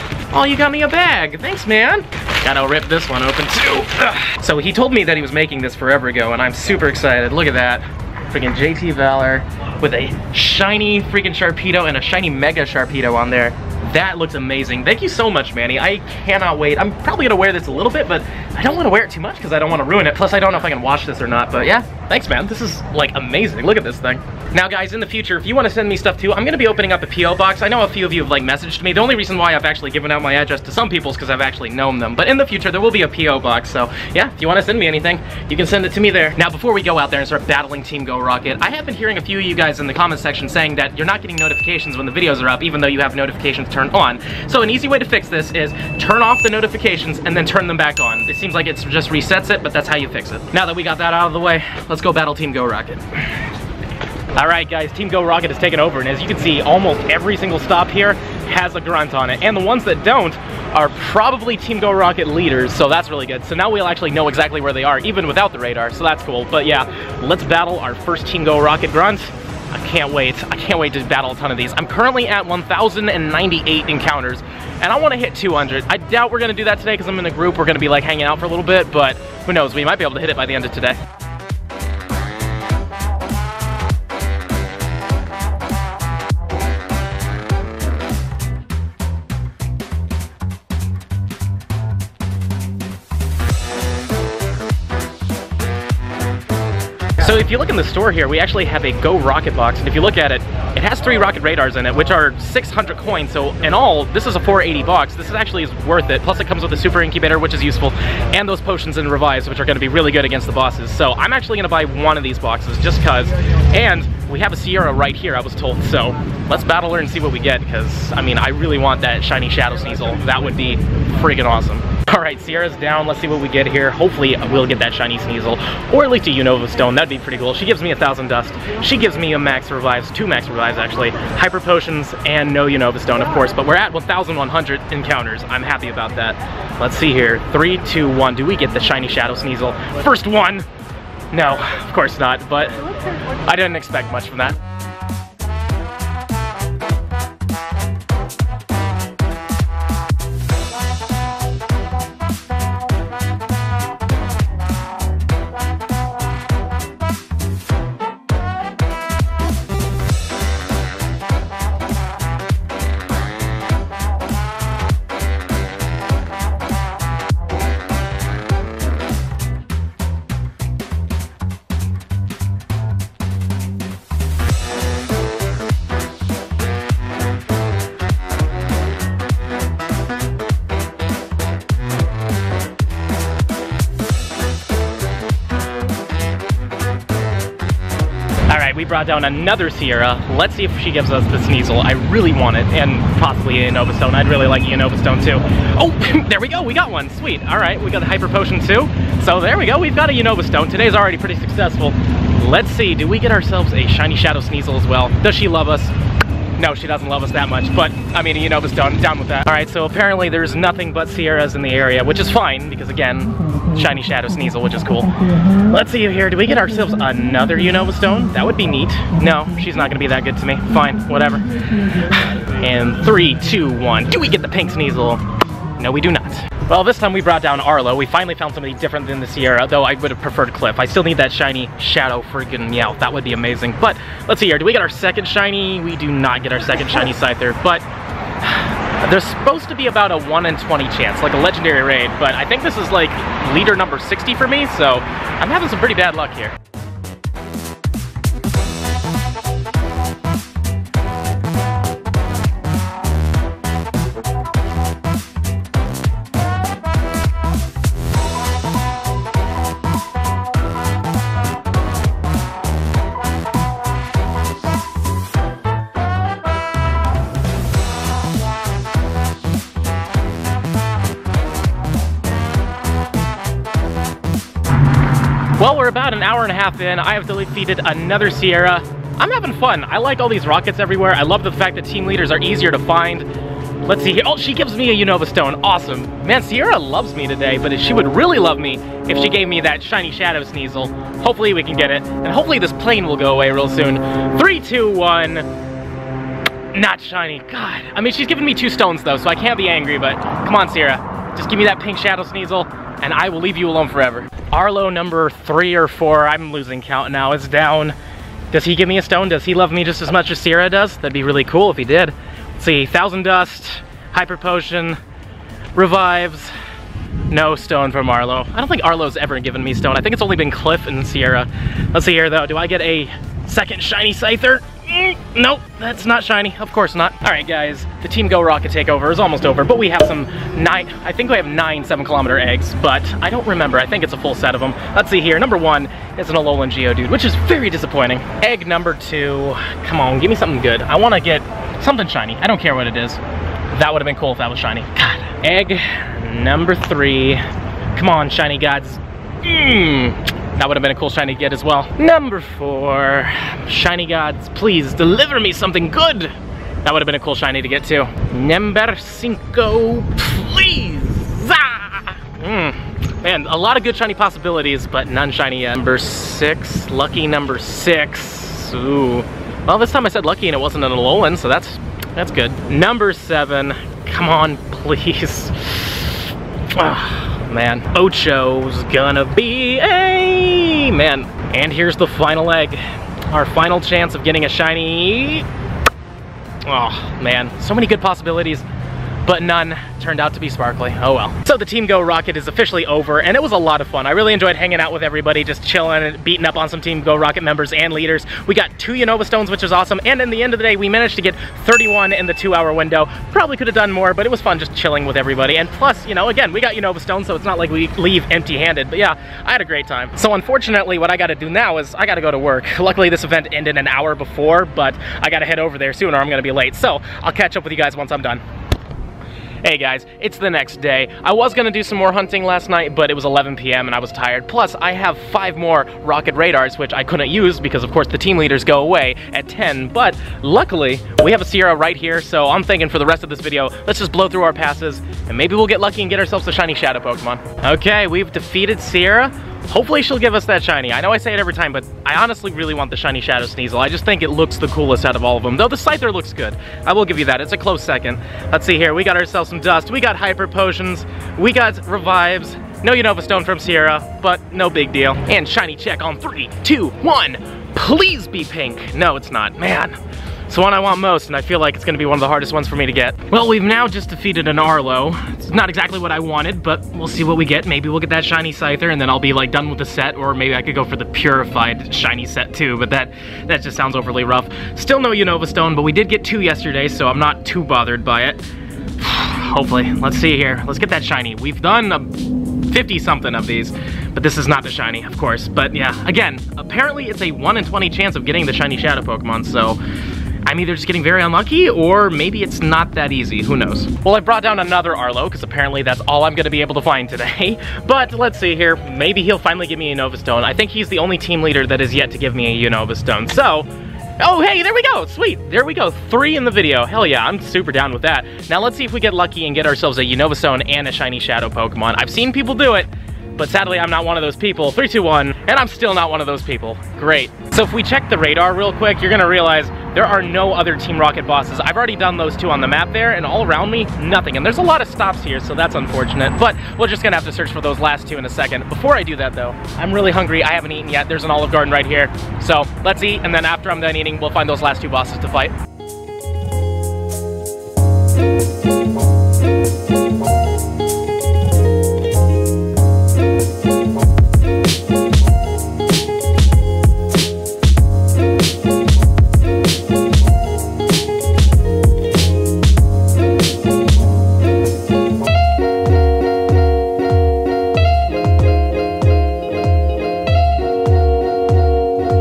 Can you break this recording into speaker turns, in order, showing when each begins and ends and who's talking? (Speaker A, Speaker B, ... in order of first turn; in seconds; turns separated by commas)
Speaker A: 0.3-53.2, Speaker A: 54.4-81.0, Speaker A: 97.2-140.7, Speaker A: 141.3-142.8, Speaker A: 143.4-144.6, Speaker A: 188.5-205.9, Speaker A: 206.6-225.2, Speaker A: 225.8-237.8, Speaker A: 238.4-246.6, Speaker A: 275.6-283.3, Speaker A: 283.8-295.5, Speaker A: 296.7-307.9, Speaker A: 308.5-315.0, Speaker A: 315.7-316.5, Speaker A: 317.3-385.5, Speaker A: 386.6-388.6, Speaker A: 389.2-418.4, Speaker A: 419.6-460.0, Speaker A: 460.5-478.4, Speaker A: 479.0-489.8, Speaker A: 490.4-535.5